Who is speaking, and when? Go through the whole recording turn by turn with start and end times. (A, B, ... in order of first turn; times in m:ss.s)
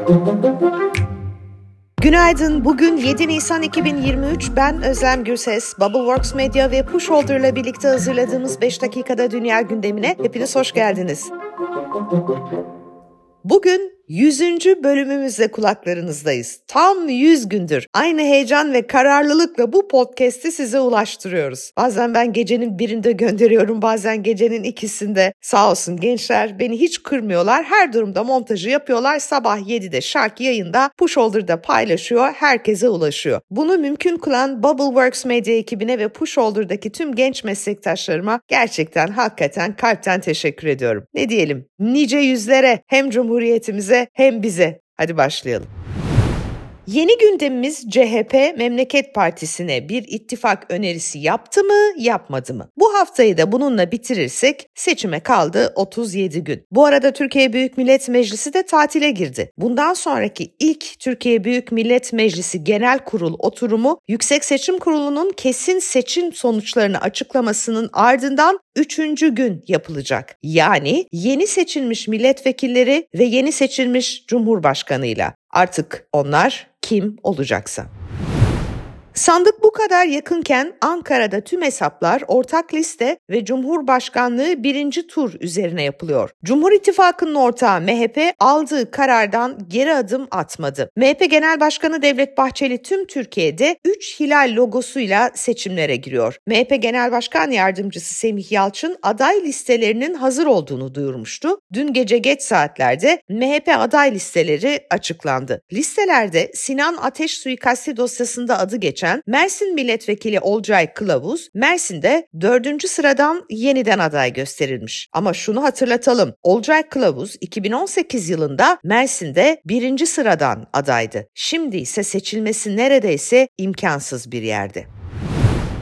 0:02.0-0:11.3 A
0:13.4-0:45.7 A
0:46.8-1:17.9 A
1:19.1-2:04.9 A